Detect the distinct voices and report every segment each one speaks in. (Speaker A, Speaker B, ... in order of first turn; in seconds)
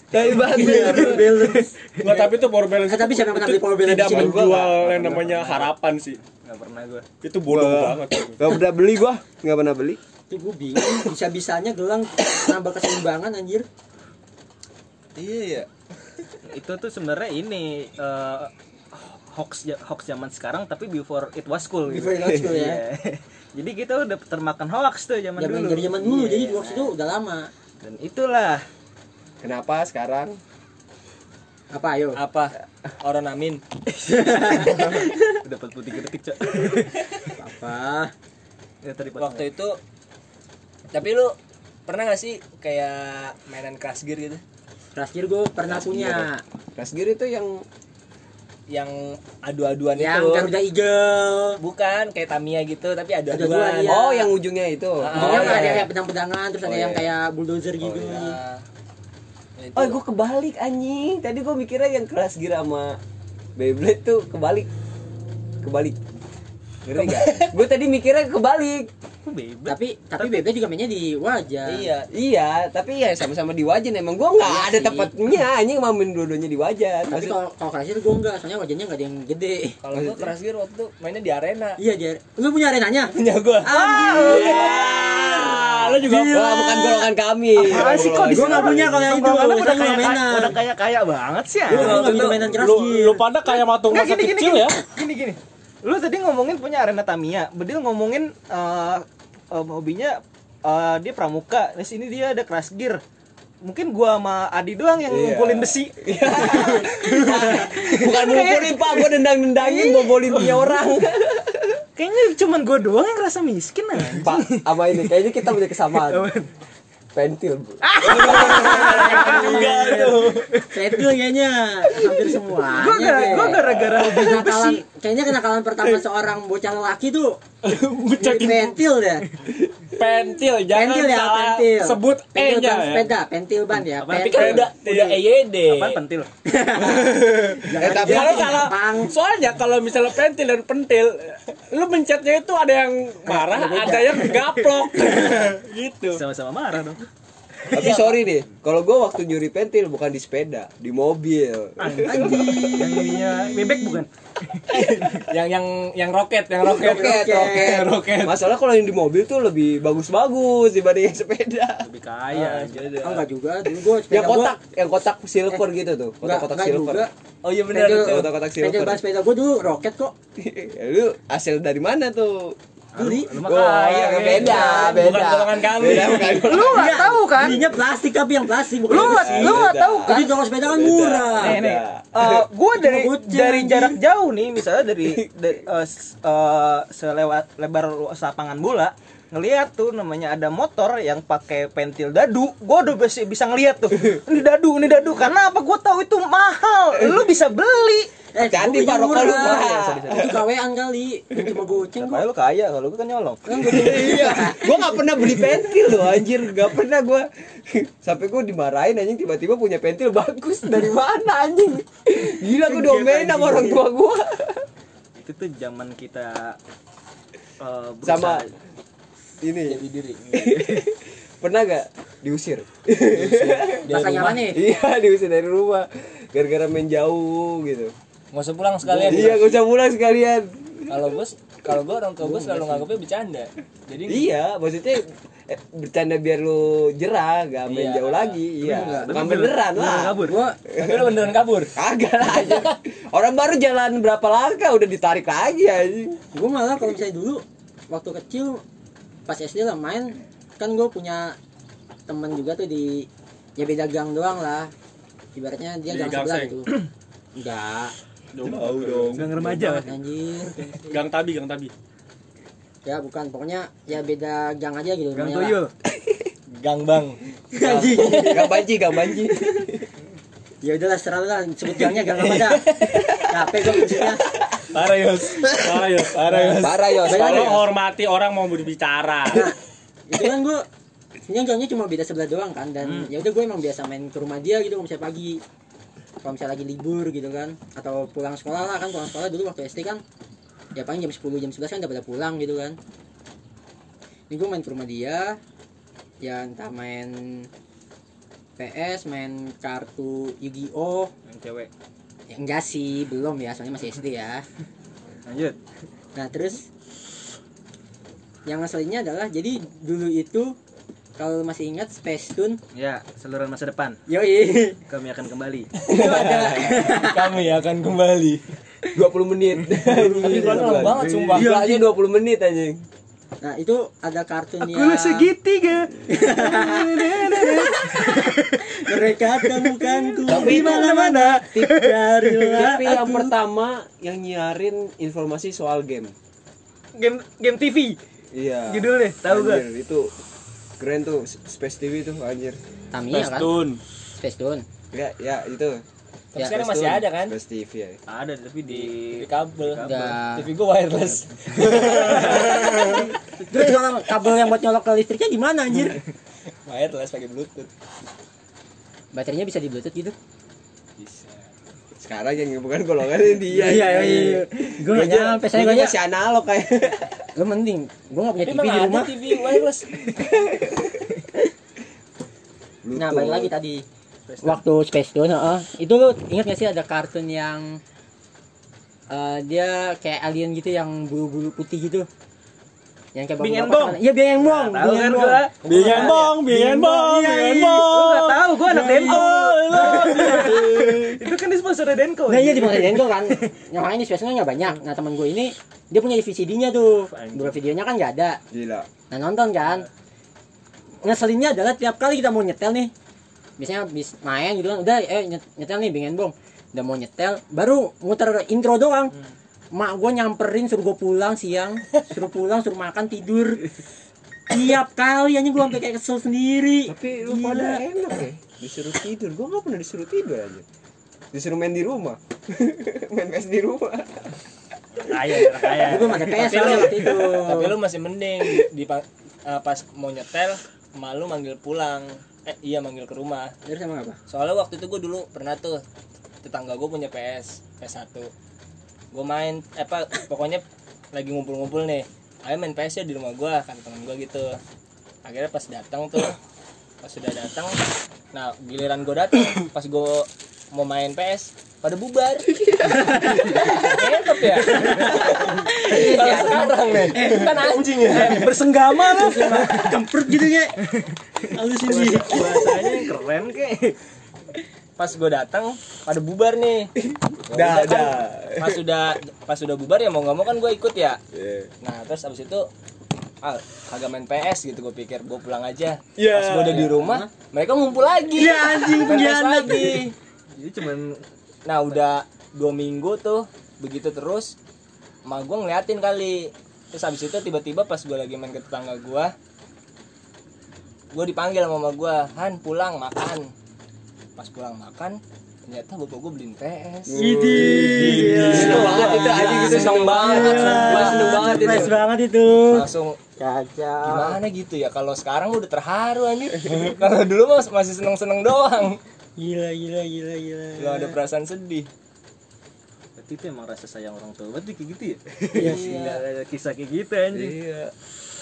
Speaker A: 0.1-1.5, 4.0-5.3, 7.5-10.0, 29.4-30.4, 45.7-47.6, 53.8-55.9, 56.6-57.0, 59.8-63.0, 63.6-64.7, 65.6-66.0, 66.8-68.9, 72.1-77.4, 79.9-80.3, 84.0-88.9, 105.1-111.8, 114.2-116.3, 117.1-119.8, 123.3-124.1, 136.8-138.7, 147.7-153.0, 156.6-161.9, 164.1-167.1, 167.8-169.0, 170.4-177.7, 178.9-182.4, 198.4-200.4, 203.6-214.7, 218.0-218.4, 219.4-227.9, 228.8-231.2, 232.2-232.9, 234.1-246.2, 258.4-259.3, 268.2-269.9, 276.6-277.6, 315.9-316.9, 318.9-322.8, 330.3-330.8, 332.5-336.1, 338.3-340.1, 340.8-342.6, 344.9-345.8, 346.4-348.0, 361.9-367.2, 370.2-370.8, 372.8-373.5, 389.8-391.1, 398.5-398.9, 416.9-420.6, 421.3-424.4, 425.2-425.7, 467.5-468.9, 471.3-471.7, 476.2-477.0, 496.6-502.0, 517.3-517.9
Speaker B: 0.3-1.7, 2.9-4.6, 10.3-13.7, 21.9-22.8, 25.4-27.5, 31.7-32.2, 34.0-35.4, 37.4-38.1, 45.0-46.4, 50.0-51.6, 53.3-54.3, 55.1-58.4, 69.7-71.9, 74.4-75.1, 77.1-79.8, 81.8-87.1, 88.0-90.6, 91.7-93.2, 106.5-107.7, 118.1-127.4, 128.1-129.2, 130.7-135.2, 136.4-139.1, 143.2-145.1, 152.0-154.0, 156.7-157.8, 163.0-164.5, 166.2-167.1, 167.7-170.1, 172.9-173.3, 174.4-175.1, 176.0-181.6, 182.7-184.0, 198.3-202.2, 203.4-205.0, 212.6-213.8, 223.9-224.6, 238.6-239.1, 240.2-240.6, 246.3-248.6, 249.3-251.3, 252.1-254.7, 255.3-256.7, 257.4-257.9, 259.2-260.9, 262.8-265.6, 267.5-268.6, 270.6-274.2, 277.0-277.7, 280.1-280.6, 281.2-285.4, 286.2-290.0, 290.7-292.8, 294.3-295.4, 296.2-297.5, 298.6-301.1, 302.3-304.4, 306.1-306.6, 308.4-310.5, 311.2-312.6, 314.1-314.8, 315.9-317.3, 319.9-321.8, 323.4-325.3, 326.1-333.3, 342.9-343.6, 344.2-344.6, 349.8-350.5, 351.9-356.0, 359.1-360.1, 363.5-365.9, 367.4-369.1, 372.9-373.8, 374.4-377.8, 379.1-382.1, 383.1-387.8, 388.6-390.7, 392.3-398.4, 399.1-399.9, 401.0-402.9, 403.6-409.1, 409.7-413.7, 414.5-417.8, 425.8-427.8, 433.6-434.2, 452.9-460.7, 461.5-462.9, 476.9-477.3, 478.3-480.1, 497.1-504.4, 509.4-511.1, 515.5-516.2
Speaker C: 2.0-6.2, 7.2-8.4, 84.2-86.6, 91.8-94.8, 127.6-128.8, 129.9-133.1, 134.3-134.7, 137.1-146.2, 174.6-176.6, 255.9-256.6, 258.3-259.2, 260.8-261.7, 275.5-279.5, 343.1-343.8, 352.6-353.0, 385.6-388.4, 389.0-389.9
Speaker D: 5.0-5.7, 6.3-7.0, 16.4-26.9, 27.8-28.6, 34.7-37.1, 38.8-39.5, 69.2-69.8, 87.5-92.2, 93.9-103.0, 103.6-110.4, 112.0-115.0, 115.9-116.5, 117.8-120.7, 122.7-124.8, 134.0-134.5, 135.6-136.3, 146.1-147.1, 151.8-155.2, 161.8-163.1, 172.9-174.8, 176.3-177.6, 178.9-180.3, 181.4-198.1, 199.1-200.4, 202.0-203.8, 215.2-216.6, 217.6-218.5, 238.6-240.4, 259.1-259.9, 265.1-265.7, 282.8-283.1, 301.2-301.7, 305.3-305.6, 312.7-314.0, 314.9-315.7, 324.6-328.6, 329.6-332.6, 336.9-338.0, 338.7-339.6, 348.1-350.2, 351.9-352.2, 383.4-386.4, 387.3-393.5, 397.1-397.5, 458.1-460.0, 460.8-461.1, 461.8-464.0, 480.5-481.2, 498.4-500.1, 513.2-517.6
Speaker E: 15.2-15.7, 32.2-33.6, 39.2-39.8, 40.9-41.3, 41.9-44.4, 48.7-50.5, 51.6-54.0, 55.0-55.9, 57.8-58.6, 59.6-60.0, 67.0-67.5, 71.6-72.1, 79.8-81.8, 83.1-84.5, 91.7-92.4, 118.1-120.5, 134.1-136.0, 147.7-148.1, 154.7-158.4, 162.3-163.2, 167.4-168.3, 173.6-175.3, 219.7-220.7, 223.1-224.4, 228.3-229.6, 230.9-234.3, 237.7-238.4, 240.7-241.7, 242.2-242.7, 266.5-268.5, 271.8-277.0, 315.8-318.4, 320.2-321.8, 330.3-330.6, 346.3-347.3, 348.6-352.7, 356.6-357.7, 361.0-361.5, 368.4-370.1, 374.3-374.6, 425.1-433.5, 434.3-435.8, 436.4-438.3, 439.1-444.6, 445.2-446.4, 447.0-447.8, 448.3-458.6, 465.0-466.9, 467.5-471.2, 471.8-472.7, 473.4-480.1, 481.6-484.6, 485.2-489.3, 491.1-493.5, 494.4-496.6, 497.7-501.9, 502.7-503.2, 504.0-509.0, 510.8-511.9, 515.5-515.8